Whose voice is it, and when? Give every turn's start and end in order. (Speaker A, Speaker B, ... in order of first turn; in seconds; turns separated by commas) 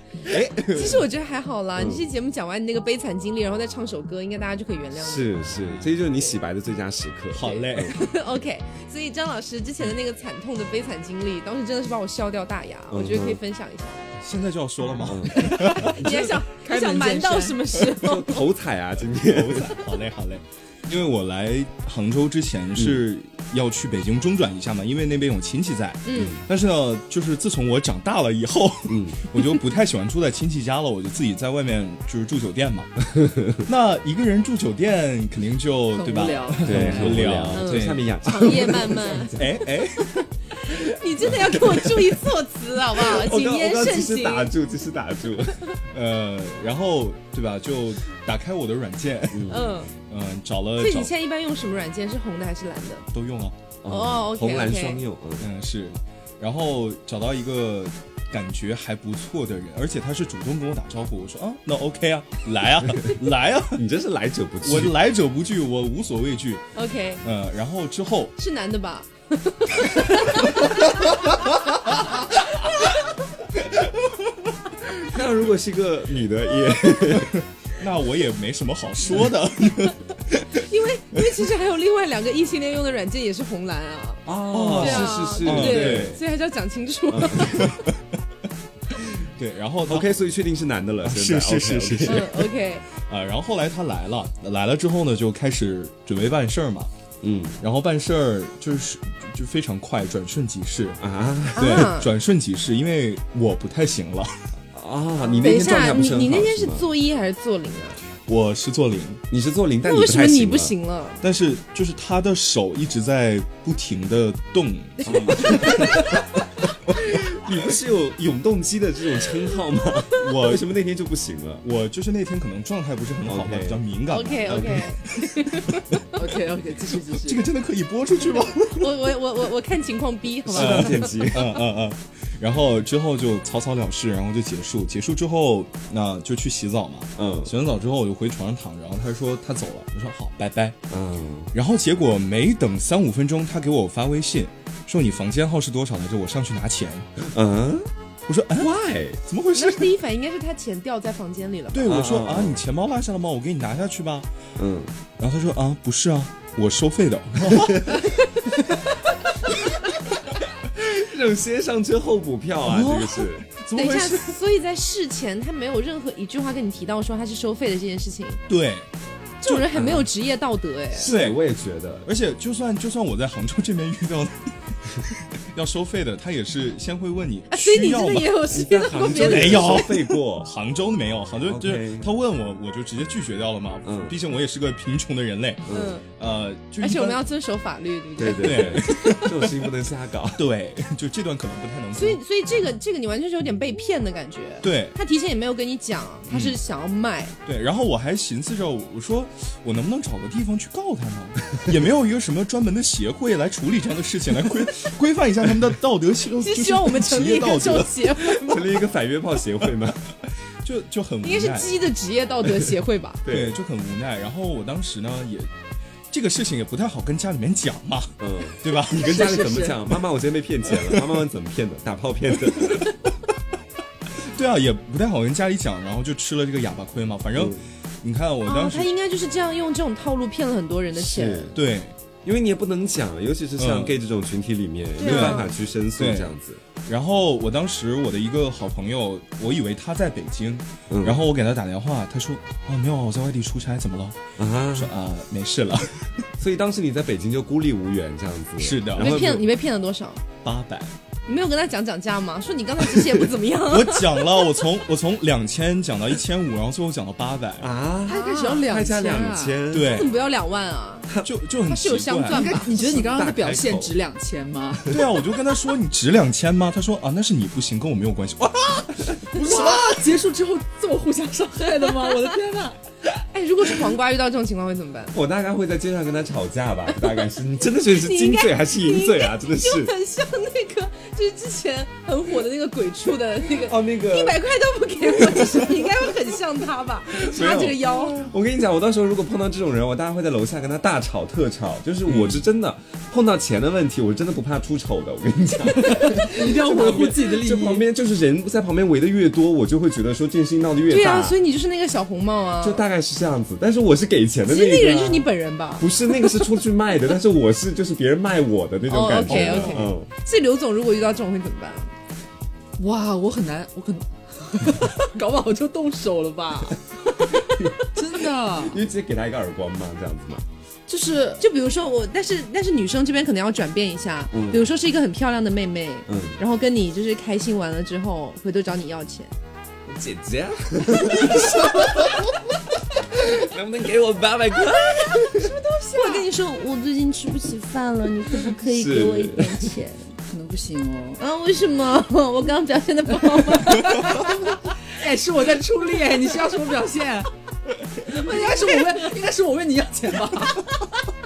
Speaker A: 0.3-1.1, Speaker B: 0.7-5.5, Speaker C: 1.8-2.0, Speaker C: 5.0-7.9, Speaker A: 5.6-5.9, Speaker A: 7.3-7.9, Speaker B: 7.8-14.1, Speaker C: 12.9-13.4, Speaker A: 14.2-16.0, Speaker C: 15.1-16.2, Speaker B: 15.4-18.4, Speaker D: 16.0-17.6, Speaker C: 18.0-19.8, Speaker A: 19.2-32.9, Speaker B: 26.1-26.4, Speaker C: 26.1-26.4, Speaker C: 28.9-29.2, Speaker C: 33.2-33.5, Speaker A: 33.6-38.1, Speaker D: 35.9-37.3, Speaker C: 36.6-39.4, Speaker B: 37.5-39.4, Speaker A: 39.4-40.3, Speaker B: 40.5-44.5, Speaker C: 41.3-41.7, Speaker A: 41.5-41.7, Speaker C: 43.0-45.7, Speaker A: 45.9-51.1, Speaker C: 49.3-49.7, Speaker B: 49.5-49.9, Speaker B: 50.8-53.1, Speaker A: 53.1-53.6, Speaker C: 53.8-55.5, Speaker B: 53.9-55.0, Speaker A: 55.4-63.9, Speaker C: 63.7-65.0, Speaker A: 64.6-66.7, Speaker B: 66.8-67.2, Speaker A: 67.2-68.3, Speaker B: 68.4-71.2, Speaker B: 72.2-73.2, Speaker C: 74.9-77.4, Speaker A: 77.1-80.5, Speaker B: 80.5-84.2, Speaker C: 84.3-86.2, Speaker A: 84.5-86.2, Speaker B: 84.8-87.7, Speaker C: 87.1-87.7, Speaker A: 87.3-88.0, Speaker A: 89.3-90.2, Speaker C: 89.9-92.3, Speaker A: 91.0-92.3, Speaker B: 92.1-92.8, Speaker A: 93.0-96.9, Speaker C: 97.2-97.6, Speaker A: 97.6-101.0, Speaker C: 101.0-101.9, Speaker A: 101.5-104.3, Speaker B: 101.6-102.1, Speaker C: 104.7-106.9, Speaker B: 105.4-108.0, Speaker A: 108.3-109.2, Speaker C: 109.3-110.7, Speaker B: 109.8-111.2, Speaker A: 111.2-116.0, Speaker B: 115.0-116.2, Speaker C: 115.1-116.0, Speaker C: 116.9-121.6, Speaker A: 120.2-120.7, Speaker A: 121.6-126.0, Speaker C: 123.3-123.8, Speaker B: 124.1-125.8, Speaker C: 124.5-124.8, Speaker D: 126.2-127.5, Speaker A: 127.1-129.1, Speaker B: 128.7-131.2, Speaker C: 130.5-131.6, Speaker A: 130.5-140.8, Speaker C: 137.2-137.5, Speaker C: 140.9-141.5, Speaker A: 141.5-147.1, Speaker C: 147.2-147.9, Speaker A: 148.3-148.7, Speaker C: 148.6-149.2, Speaker A: 149.3-149.9, Speaker B: 149.5-151.9, Speaker A: 151.7-154.3, Speaker C: 151.9-152.6, Speaker C: 154.6-154.9, Speaker A: 155.2-158.1, Speaker C: 157.5-158.0, Speaker C: 160.6-163.4, Speaker A: 162.7-164.4, Speaker B: 163.7-168.4, Speaker A: 168.5-168.9, Speaker B: 169.4-171.1, Speaker C: 169.7-170.1, Speaker C: 170.9-172.1, Speaker A: 171.1-171.4, Speaker A: 172.1-187.2, Speaker B: 177.5-179.8, Speaker C: 178.5-180.5, Speaker C: 181.5-182.1, Speaker C: 183.8-184.2, Speaker C: 185.7-186.0, Speaker B: 185.7-186.0, Speaker B: 186.8-189.2, Speaker C: 188.2-190.4, Speaker A: 188.4-189.6, Speaker A: 190.4-192.2, Speaker B: 191.9-197.3, Speaker A: 194.6-195.0, Speaker A: 196.3-196.6, Speaker A: 197.5-208.3, Speaker B: 206.4-208.7, Speaker C: 208.4-210.0, Speaker A: 210.6-211.7, Speaker B: 211.2-213.2, Speaker C: 213.2-213.6, Speaker A: 213.3-215.5, Speaker A: 216.1-219.3, Speaker C: 218.2-222.9, Speaker D: 218.9-219.8, Speaker A: 220.7-221.1, Speaker A: 222.4-222.9, Speaker A: 224.2-228.9, Speaker C: 227.3-227.6, Speaker B: 228.4-231.6, Speaker C: 230.9-231.6, Speaker A: 231.6-231.9, Speaker C: 232.2-236.6, Speaker A: 233.6-234.0, Speaker B: 235.0-235.6, Speaker A: 235.0-236.3, Speaker A: 236.8-244.2, Speaker C: 240.9-241.2, Speaker C: 244.4-244.9, Speaker A: 244.7-246.3, Speaker C: 246.4-249.4, Speaker A: 248.6-249.3, Speaker B: 249.0-250.2, Speaker A: 250.4-250.9, Speaker B: 251.3-254.6, Speaker A: 253.0-257.7, Speaker C: 257.6-260.1, Speaker D: 258.1-259.6, Speaker B: 258.1-261.1, Speaker A: 259.7-260.1, Speaker A: 261.2-262.6, Speaker B: 261.6-262.7, Speaker D: 262.3-265.0, Speaker C: 262.6-263.9, Speaker A: 264.9-269.8, Speaker D: 269.3-272.8, Speaker B: 273.3-275.1, Speaker C: 275.1-279.9, Speaker B: 277.9-288.3, Speaker C: 283.5-284.4, Speaker C: 285.0-285.9, Speaker C: 287.2-301.4, Speaker A: 292.1-292.4, Speaker D: 295.8-297.8, Speaker B: 300.9-302.9, Speaker C: 302.6-310.1, Speaker B: 304.5-306.4, Speaker B: 308.9-311.9, Speaker A: 309.3-309.8, Speaker D: 312.8-318.8, Speaker C: 317.5-317.8, Speaker C: 318.5-320.4, Speaker D: 320.9-321.4, Speaker B: 321.4-329.3, Speaker C: 324.3-324.7, Speaker C: 326.1-326.4, Speaker C: 329.9-332.1, Speaker B: 331.1-331.6, Speaker C: 333.0-335.5, Speaker B: 335.1-335.3, Speaker D: 335.3-336.3, Speaker B: 335.9-340.1, Speaker C: 338.7-339.7, Speaker D: 340.3-341.2, Speaker B: 341.2-344.6, Speaker D: 343.7-347.3, Speaker D: 348.0-350.8